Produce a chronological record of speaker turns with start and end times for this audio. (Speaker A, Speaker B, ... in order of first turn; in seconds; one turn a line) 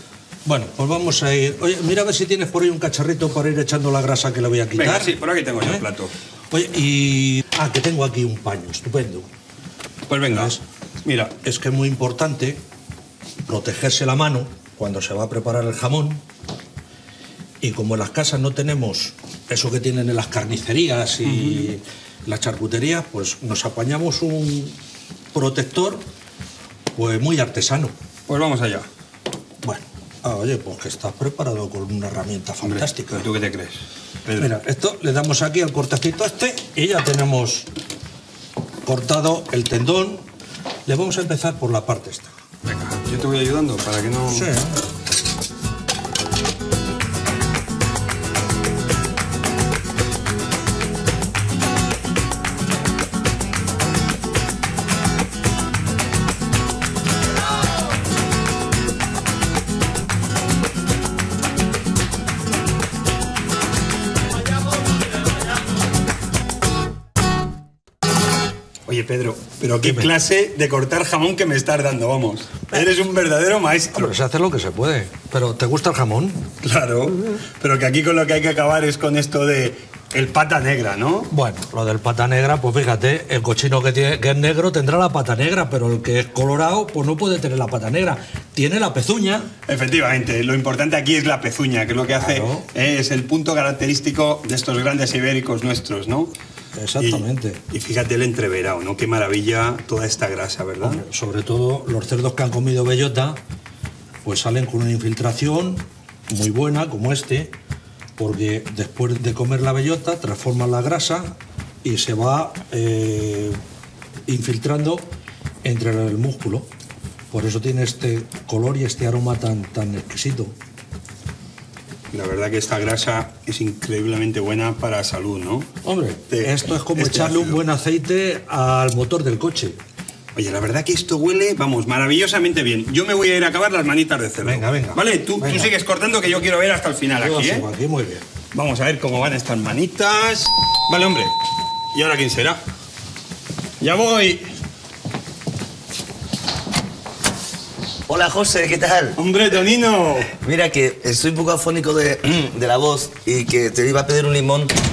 Speaker A: 0.4-5.8
Speaker B: 4.8-6.1
Speaker A: 6.5-9.3
Speaker B: 10.1-11.3
Speaker A: 10.3-10.6
Speaker A: 11.4-12.6
Speaker A: 13.4-16.2
Speaker A: 17.6-24.8
Speaker B: 21.3-21.6
Speaker A: 25.3-26.1
Speaker A: 26.9-27.9
Speaker B: 28.3-28.9
Speaker A: 29.6-33.2
Speaker B: 32.6-34.5
Speaker A: 34.4-37.7
Speaker A: 38.8-40.2
Speaker A: 40.9-42.3
Speaker B: 42.6-44.5
Speaker A: 44.3-44.8
Speaker B: 68.9-74.1
Speaker A: 69.8-70.1
Speaker A: 73.9-76.5
Speaker B: 76.6-81.3
Speaker A: 81.3-89.5
Speaker B: 89.7-96.3
Speaker A: 92.1-92.7
Speaker A: 96.8-97.6
Speaker B: 97.0-101.0
Speaker A: 100.8-103.4
Speaker A: 104.2-107.5
Speaker A: 108.2-113.6
Speaker A: 114.3-115.1
Speaker A: 115.6-116.7
Speaker A: 117.3-120.5
Speaker B: 122.1-125.7
Speaker A: 125.8-129.8
Speaker B: 126.3-127.6
Speaker B: 130.3-137.7
Speaker A: 134.4-135.7
Speaker A: 137.2-138.2
Speaker B: 138.5-141.4
Speaker B: 141.9-142.6
Speaker B: 143.8-144.5
Speaker C: 148.1-149.2
Speaker B: 149.2-150.3
Speaker C: 150.3-154.8